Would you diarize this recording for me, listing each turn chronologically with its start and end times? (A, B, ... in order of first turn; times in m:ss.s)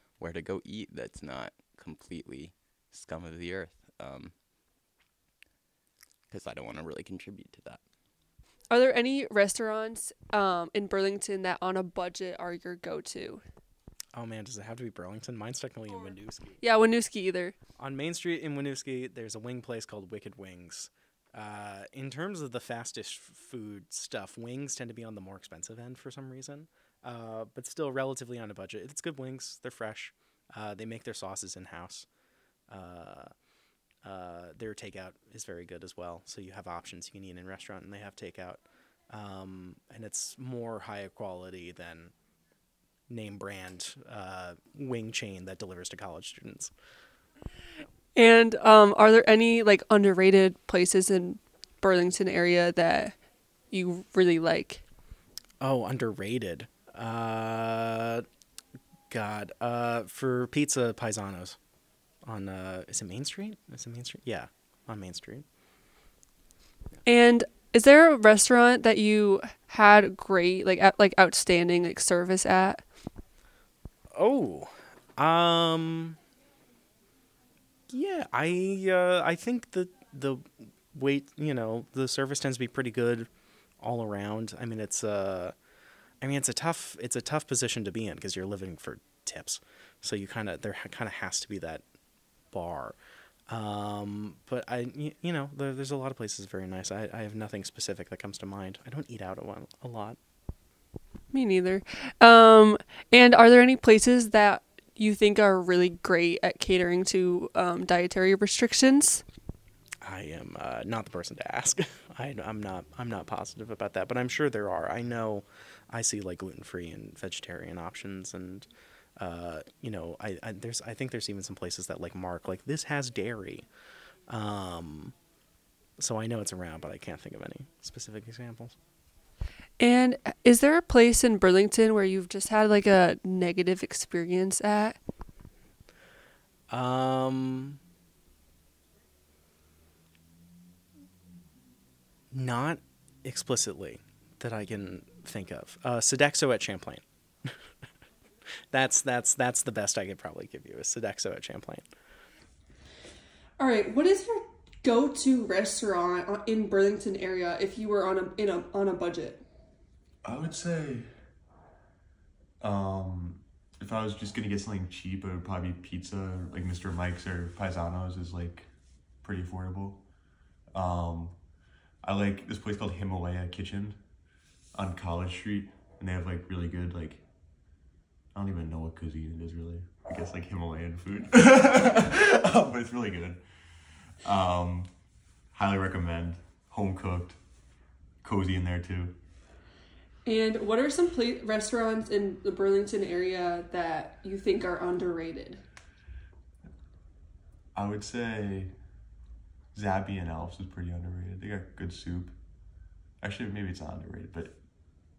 0:00.2-0:04.3 A
0:06.3-0:07.8 A
0:08.7-0:13.4 B
0:14.1-0:16.6 C
0:16.6-0:17.6 B
0:17.8-0:32.1 C
0:32.7-0:33.3 C
0:34.0-0:42.1 C
0:43.1-0:46.7 C
0:48.1-0:54.8 B
0:55.6-0:58.2 C
0:59.1-1:01.6 C
1:02.2-1:05.4 C
1:07.0-1:12.9 B
1:14.1-1:16.2 C
1:17.9-1:25.6 C
1:26.2-1:31.8 C
1:32.5-1:33.0 C
1:33.5-1:40.2 C
1:41.3-1:49.2 B
1:50.0-2:03.7 C
2:04.3-2:05.2 C
2:06.0-2:08.8 C
2:09.8-2:15.0 B
2:16.7-2:17.8 C
2:22.3-2:27.7 C
2:28.7-2:31.9 C
2:33.6-2:39.4 B
2:40.2-2:41.0 D
2:42.6-2:48.7 D
2:49.2-2:50.0 D
2:50.7-2:51.4 D
2:52.0-2:54.0 D
2:54.7-2:57.2 D
2:58.3-3:03.4 D
3:04.2-3:04.9 D
3:05.5-3:07.4 D
3:08.2-3:09.1 D
3:10.2-3:15.6 B
3:17.7-3:18.7 D
3:19.7-3:22.3 D
3:23.2-3:24.6 D